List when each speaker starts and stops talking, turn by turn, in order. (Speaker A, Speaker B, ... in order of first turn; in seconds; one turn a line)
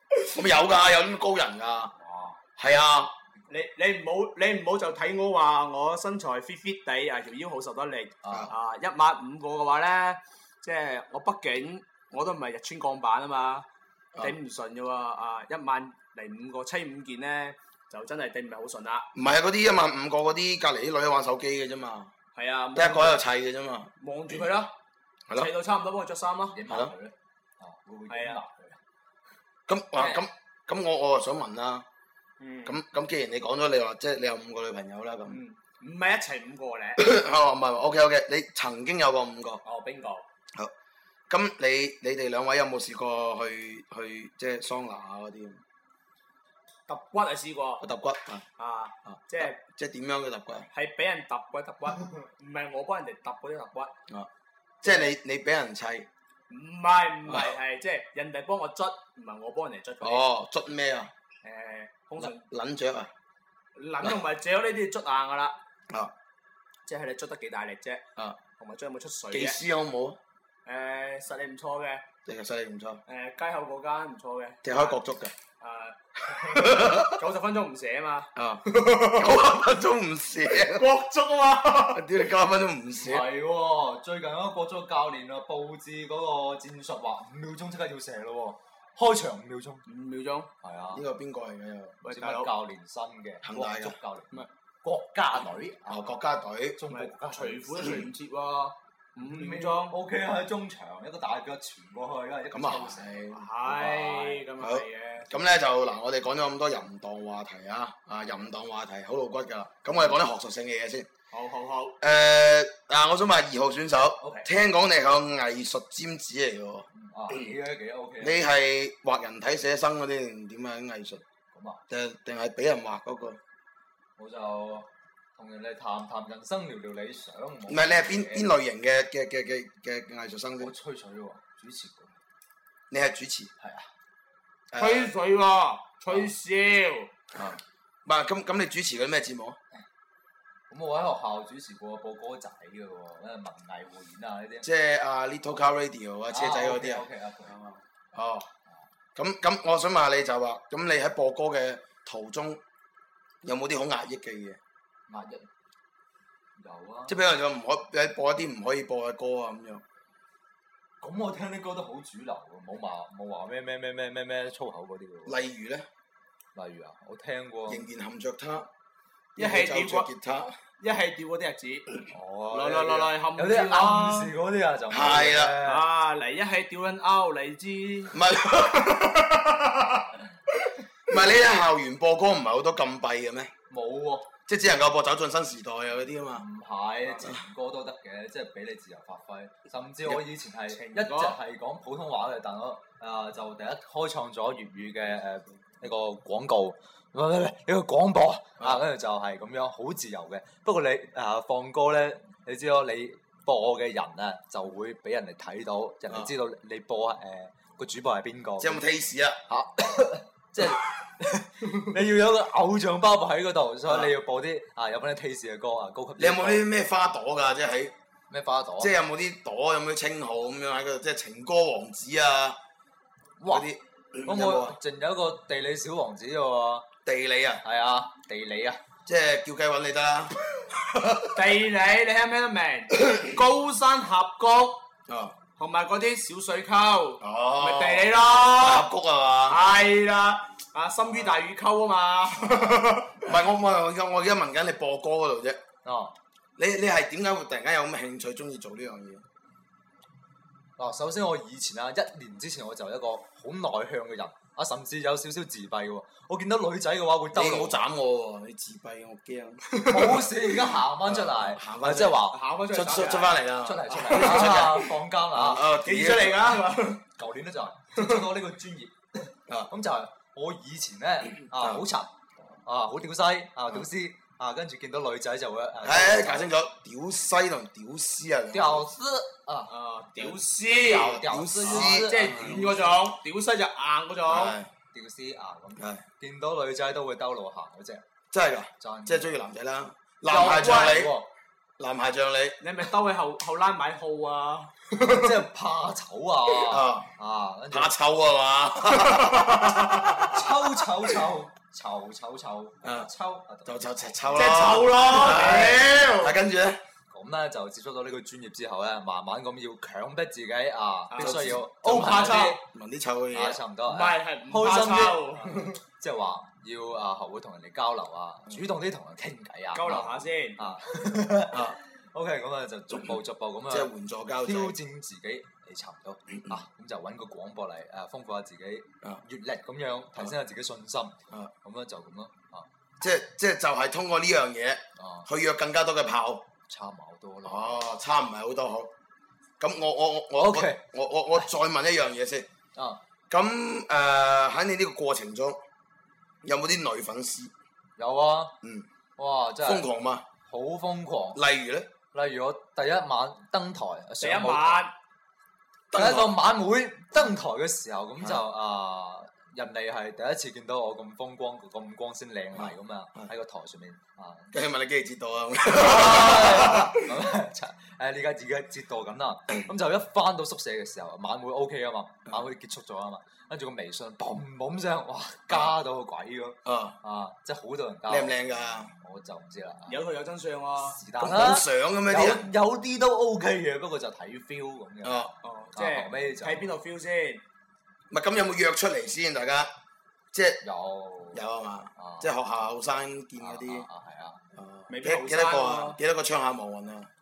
Speaker A: 0.3-1.9
Speaker B: 2.0-2.4
Speaker A: 2.6-3.1
Speaker C: 3.5-13.7
Speaker B: 8.2-8.5
Speaker C: 14.2-19.1
Speaker A: 19.1-22.1
Speaker C: 22.4-23.2
Speaker A: 22.7-24.4
Speaker C: 24.0-24.7
Speaker C: 25.3-26.6
Speaker B: 26.5-28.8
Speaker C: 28.1-28.4
Speaker A: 29.7-31.8
Speaker C: 32.4-32.8
Speaker A: 32.6-35.4
Speaker C: 35.3-37.0
Speaker A: 37.0-39.6
Speaker C: 39.6-40.2
Speaker A: 41.3-45.6
Speaker C: 46.9-47.8
Speaker A: 47.8-48.4
Speaker C: 48.6-49.6
Speaker A: 49.1-50.7
Speaker C: 50.7-53.9
Speaker A: 54.8-56.1
Speaker C: 54.8-55.1
Speaker C: 56.5-60.2
Speaker A: 60.0-61.1
Speaker C: 61.4-62.4
Speaker A: 62.2-63.1
Speaker C: 63.8-65.5
Speaker C: 66.8-68.0
Speaker C: 68.6-69.6
Speaker A: 69.3-70.2
Speaker C: 70.7-72.0
Speaker A: 72.2-73.0
Speaker C: 73.1-75.0
Speaker A: 74.6-75.3
Speaker C: 75.6-79.3
Speaker A: 76.3-77.2
Speaker A: 78.3-80.9
Speaker C: 80.5-82.1
Speaker A: 81.9-83.2
Speaker B: 83.0-89.8
Speaker C: 89.8-90.5
Speaker B: 90.6-91.0
Speaker A: 90.9-92.0
Speaker C: 92.0-92.5
Speaker B: 92.0-96.2
Speaker A: 93.4-94.0
Speaker A: 95.9-96.8
Speaker B: 96.8-97.9
Speaker C: 96.9-99.9
Speaker B: 99.2-103.2
Speaker A: 102.5-111.1
Speaker C: 103.3-105.3
Speaker C: 111.3-112.0
Speaker A: 112.0-117.3
Speaker B: 114.2-114.5
Speaker B: 116.9-118.4
Speaker A: 118.2-121.2
Speaker B: 121.5-121.8
Speaker A: 121.9-123.4
Speaker B: 124.2-128.5
Speaker A: 127.7-130.7
Speaker B: 130.6-132.1
Speaker A: 132.9-133.5
Speaker B: 133.6-133.9
Speaker A: 134.7-135.1
Speaker C: 134.8-137.1
Speaker A: 137.3-139.6
Speaker B: 140.7-144.7
Speaker A: 144.6-147.0
Speaker B: 146.3-147.8
Speaker A: 148.1-148.5
Speaker A: 149.1-152.6
Speaker A: 153.4-154.6
Speaker B: 155.1-155.4
Speaker B: 156.6-157.2
Speaker A: 157.1-159.8
Speaker B: 161.0-165.4
Speaker A: 165.2-165.8
Speaker B: 166.5-167.8
Speaker A: 167.7-168.7
Speaker C: 169.3-170.1
Speaker A: 169.3-170.6
Speaker C: 170.8-172.0
Speaker B: 172.1-175.9
Speaker C: 172.5-174.3
Speaker A: 174.9-175.6
Speaker C: 175.6-178.2
Speaker A: 178.1-179.2
Speaker C: 179.3-179.9
Speaker A: 181.1-183.5
Speaker B: 183.7-184.3
Speaker A: 184.5-186.4
Speaker B: 186.3-208.8
Speaker C: 190.7-191.3
Speaker A: 208.6-209.4
Speaker B: 209.5-216.7
Speaker A: 216.2-217.9
Speaker B: 218.3-218.9
Speaker A: 218.8-222.6
Speaker B: 223.4-223.7
Speaker A: 223.5-224.8
Speaker B: 224.2-226.9
Speaker A: 227.0-227.6
Speaker B: 227.6-228.8
Speaker A: 229.1-231.4
Speaker C: 231.3-234.8
Speaker A: 235.1-235.3
Speaker C: 235.6-238.9
Speaker A: 237.2-239.6
Speaker C: 239.5-243.3
Speaker A: 243.2-245.6
Speaker B: 245.8-246.1
Speaker A: 246.6-249.2
Speaker B: 250.8-257.8
Speaker A: 257.3-260.4
Speaker B: 259.9-262.4
Speaker A: 261.0-262.2
Speaker C: 262.3-263.4
Speaker A: 262.7-266.6
Speaker B: 263.6-265.7
Speaker C: 264.2-264.6
Speaker C: 265.8-267.0
Speaker B: 267.2-272.1
Speaker A: 271.5-271.8
Speaker B: 272.6-276.5
Speaker A: 275.8-278.9
Speaker B: 278.5-279.7
Speaker C: 279.7-284.6
Speaker B: 280.7-282.9
Speaker A: 280.9-282.8
Speaker A: 284.3-284.7
Speaker B: 284.9-288.0
Speaker A: 285.8-286.0
Speaker A: 288.3-291.1
Speaker B: 288.8-289.4
Speaker B: 290.3-291.2
Speaker C: 290.3-291.1
Speaker A: 291.8-292.6
Speaker C: 292.6-294.7
Speaker B: 294.9-297.9
Speaker A: 296.5-297.1
Speaker A: 297.7-300.4
Speaker C: 298.9-300.2
Speaker B: 300.1-304.5
Speaker A: 302.8-303.1
Speaker A: 303.6-306.8
Speaker C: 304.3-306.4
Speaker B: 307.1-312.6
Speaker C: 311.1-312.6
Speaker A: 311.2-312.1
Speaker A: 312.6-313.6
Speaker B: 313.3-323.9
Speaker C: 313.9-315.7
Speaker C: 319.7-320.6
Speaker A: 321.5-321.8
Speaker A: 323.7-324.8
Speaker B: 324.4-332.6
Speaker A: 333.0-336.5
Speaker B: 335.0-335.3
Speaker B: 336.7-337.9
Speaker A: 337.4-338.9
Speaker A: 339.6-342.5
Speaker B: 340.4-340.8
Speaker A: 343.3-345.6
Speaker A: 346.4-347.5
Speaker B: 348.0-348.5
Speaker B: 349.2-349.9
Speaker A: 349.6-350.2
Speaker B: 350.4-351.4
Speaker A: 351.3-351.9
Speaker B: 352.1-354.9
Speaker C: 354.2-354.9
Speaker A: 355.9-356.4
Speaker B: 355.9-364.5
Speaker A: 362.6-363.3
Speaker A: 364.5-367.1
Speaker B: 365.7-378.4
Speaker A: 376.6-376.9
Speaker A: 378.1-378.9
Speaker B: 379.0-380.0
Speaker C: 379.9-381.0
Speaker B: 380.8-385.2
Speaker A: 381.2-382.4
Speaker A: 385.0-385.3
Speaker C: 385.4-387.4
Speaker B: 385.8-386.7
Speaker A: 388.1-389.7
Speaker A: 390.3-390.6
Speaker B: 390.6-391.4
Speaker A: 391.3-393.8
Speaker B: 391.9-392.3
Speaker B: 393.4-394.4
Speaker A: 394.5-397.1
Speaker C: 394.9-396.0